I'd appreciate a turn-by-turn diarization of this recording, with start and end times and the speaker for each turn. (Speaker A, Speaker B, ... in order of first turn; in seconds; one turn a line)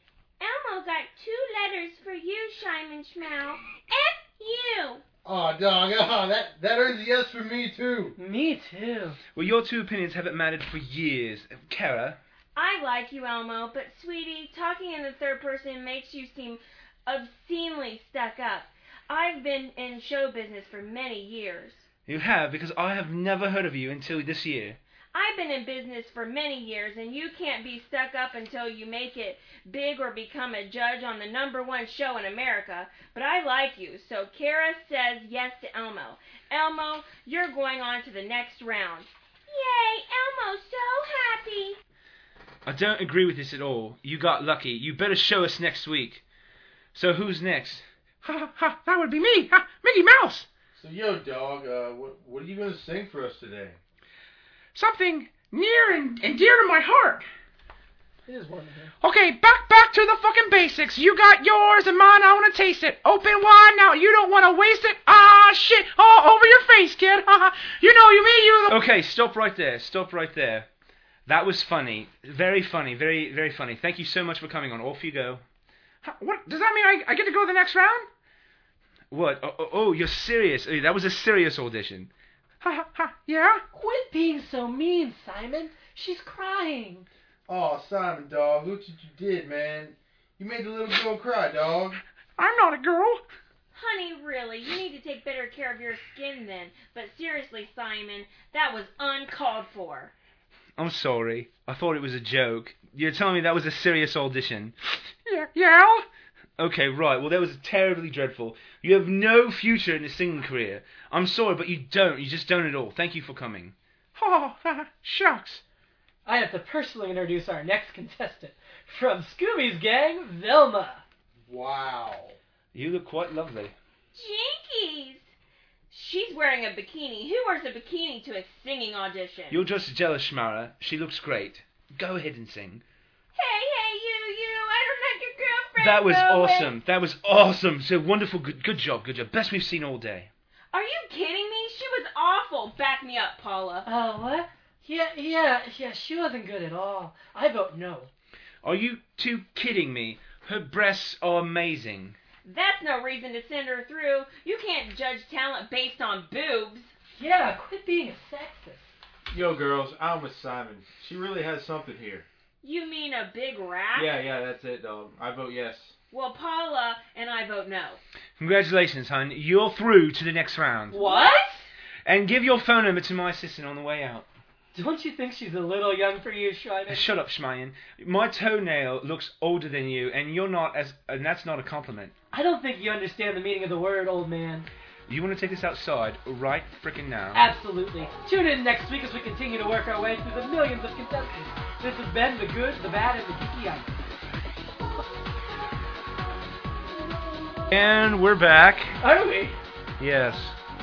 Speaker A: 0.4-5.0
Speaker B: 5.2-8.1
Speaker C: 8.2-9.2
Speaker D: 9.3-12.2
Speaker A: 12.6-21.9
Speaker D: 22.1-24.8
Speaker A: 25.1-41.8
Speaker D: 42.6-46.2
Speaker D: 46.9-50.5
Speaker B: 50.7-53.8
Speaker D: 54.8-57.2
Speaker C: 58.3-58.9
Speaker D: 59.0-70.7
Speaker D: 71.2-75.4
Speaker D: 76.0-78.1
Speaker D: 79.1-82.1
Speaker D: 82.6-83.6
Speaker C: 83.7-87.1
Speaker B: 87.5-92.0
Speaker D: 92.4-93.2
Speaker A: 93.7-100.1
Speaker D: 100.8-106.0
Speaker D: 106.6-115.6
Speaker C: 116.2-121.0
Speaker B: 121.5-122.4
Speaker D: 122.7-123.7
Speaker A: 124.1-125.3
Speaker A: 125.9-129.6
Speaker D: 129.5-132.8
Speaker A: 133.3-136.7
Speaker D: 135.8-140.3
Speaker A: 140.7-143.9
Speaker C: 143.8-148.1
Speaker D: 148.6-152.2
Speaker A: 152.4-156.9
Speaker C: 157.2-158.9
Speaker B: 159.3-162.2
Speaker A: 162.6-164.1
Speaker B: 163.9-165.9
Speaker A: 166.1-168.0
Speaker D: 168.4-171.0
Speaker C: 170.9-171.6
Speaker A: 170.9-171.5
Speaker D: 172.0-174.3
Speaker C: 174.7-177.1
Speaker D: 176.9-182.1
Speaker C: 182.3-184.7
Speaker D: 185.1-187.4
Speaker C: 187.3-194.0
Speaker D: 197.7-199.0
Speaker C: 199.0-199.6
Speaker D: 200.0-200.5